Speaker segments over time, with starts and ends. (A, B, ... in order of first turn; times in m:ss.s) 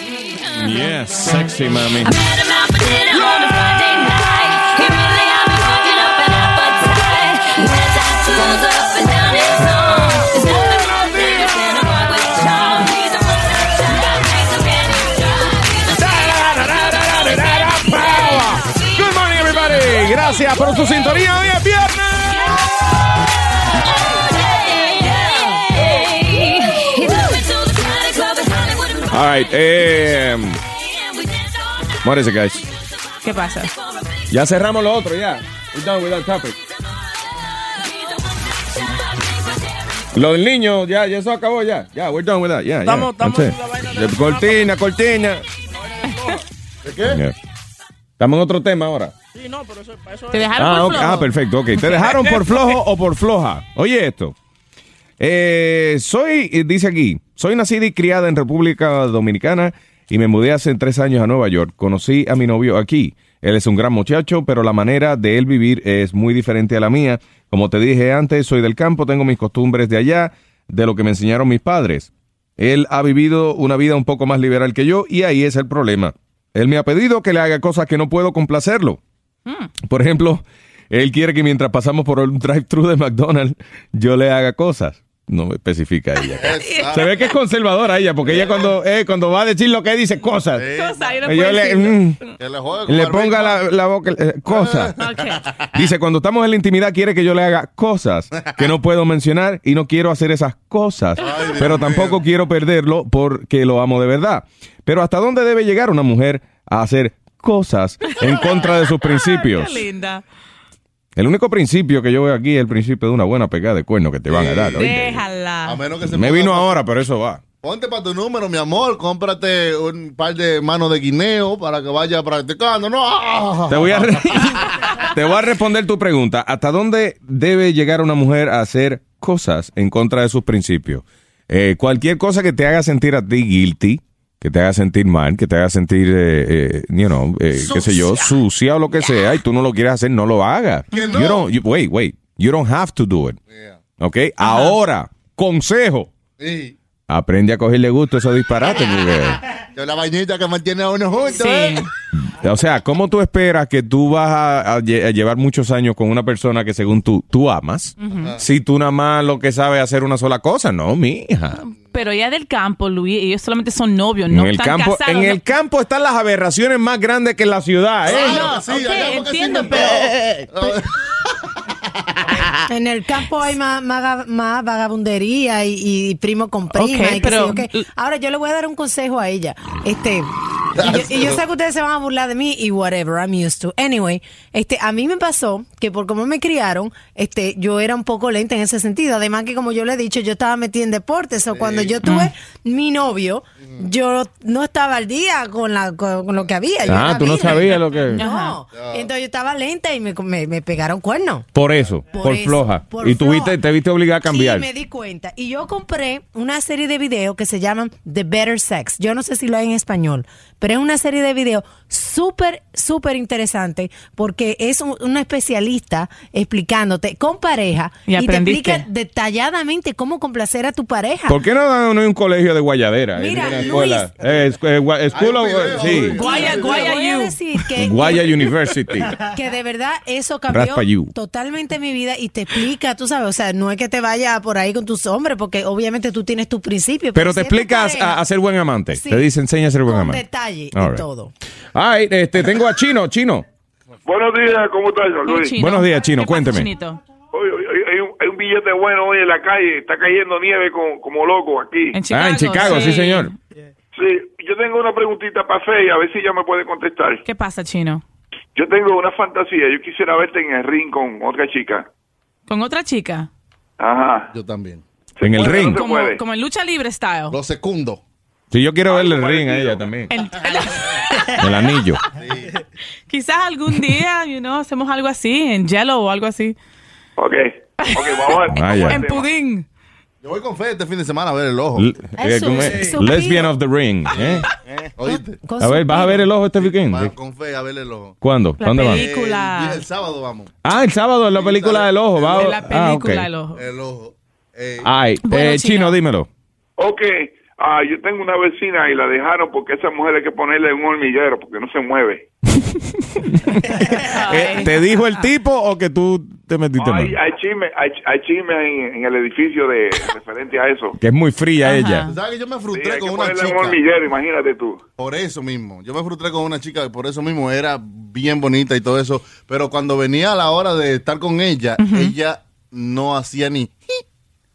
0:00.6-0:02.1 A
0:10.5-0:11.6 A
0:15.9-0:22.3 A
0:29.1-0:30.6 A
0:32.0-0:32.6 A
0:33.2-0:33.7 B
0:34.3-0:36.6 A
0:40.1-0:45.4 A
0:42.8-0:44.6 C
0:45.7-0:46.4 C
0:46.8-0:47.2 D
0:47.1-0:47.3 A
0:48.2-0:49.1 A
0:49.3-0:50.6 C
0:50.3-0:51.3 B
0:50.6-0:54.3 A
0:55.2-1:19.0 A
1:19.8-1:30.6 A
1:26.3-1:27.2 D
1:26.6-1:26.9 B
1:28.2-1:28.5 D
1:30.5-1:31.0 D
1:30.8-1:32.1 B
1:31.2-1:32.2 A
1:32.4-1:33.6 D
1:32.9-1:34.9 A
1:34.5-1:34.9 D
1:35.0-1:35.4 B
1:35.8-1:49.8 A
1:41.2-1:42.2 D
1:48.1-1:50.2 B
1:51.2-1:55.2 A
1:54.3-1:54.9 D
1:54.8-1:55.8 B
1:55.6-1:56.8 D
1:56.1-1:57.4 A
1:57.6-2:04.2 D
2:03.7-2:23.4 A
2:20.9-2:21.4 D
2:23.5-2:23.8 D
2:24.0-2:26.1 A
2:24.4-2:24.8 B
2:26.4-2:26.7 D
2:27.1-2:29.4 A
2:29.7-2:31.8 D
2:31.3-2:31.9 B
2:32.4-2:41.6 A
2:38.0-2:38.3 B
2:41.8-2:45.4 B
2:44.3-2:48.3 A
2:48.0-2:50.8 D
2:48.1-2:50.0 B
2:52.7-3:21.5 E
2:56.7-2:57.8 B
3:00.8-3:01.4 D
3:11.5-3:11.9 D
3:12.0-3:12.3 B
3:16.9-3:18.2 A
3:18.0-3:18.6 B
3:18.7-3:19.1 D
3:21.5-3:24.7 A
3:22.1-3:23.6 E
3:24.3-3:41.4 E
3:38.1-3:38.8 B
3:41.3-3:46.2 A
3:43.2-3:44.1 E
3:43.4-3:43.8 D
3:45.1-3:46.9 D
3:46.1-3:47.4 B
3:46.1-3:48.4 E
3:47.8-3:49.1 A
3:49.2-3:58.2 E
3:50.5-3:51.1 A
3:57.1-4:00.2 A
3:58.9-3:59.3 E
3:59.8-4:01.3 E
4:00.7-4:01.0 A
4:01.7-4:03.4 A
4:04.1-4:05.2 F
4:05.2-4:07.0 B
4:05.6-4:06.7 A
4:08.0-4:11.9 F
4:11.9-4:13.3 B
4:12.1-4:13.3 A
4:14.5-4:17.0 F
4:17.2-4:18.0 B
4:18.6-4:21.7 F
4:22.5-4:23.3 B
4:23.8-4:24.2 F
4:24.3-4:24.8 D
4:25.2-4:25.8 A
4:25.4-4:25.7 F
4:25.7-4:27.4 B
4:27.3-4:28.0 D
4:28.5-4:30.1 A
4:30.1-4:31.3 B
4:31.4-4:32.0 A
4:32.1-4:32.5 D
4:33.1-4:36.5 B
4:37.8-4:39.6 B
4:38.5-4:39.0 A
4:40.2-4:41.9 D
4:41.8-4:44.4 A
4:42.2-4:43.5 E
4:44.1-4:45.4 D
4:45.0-4:46.3 E
4:45.6-4:47.1 A
4:46.6-4:48.1 D
4:48.2-4:49.0 A
4:48.6-4:49.8 B
4:48.8-4:50.5 D
4:50.6-4:53.3 A
4:51.3-4:52.6 D
4:52.3-4:53.6 B
4:53.5-4:54.9 D
4:54.8-4:56.3 A
4:55.2-4:56.0 B
5:02.7-5:03.6 A
5:04.1-5:04.7 B
5:04.3-5:07.2 A
5:11.0-5:12.1 A
5:11.6-5:12.1 B
5:12.1-5:13.8 D
5:15.0-5:24.0 D
5:21.8-5:22.1 B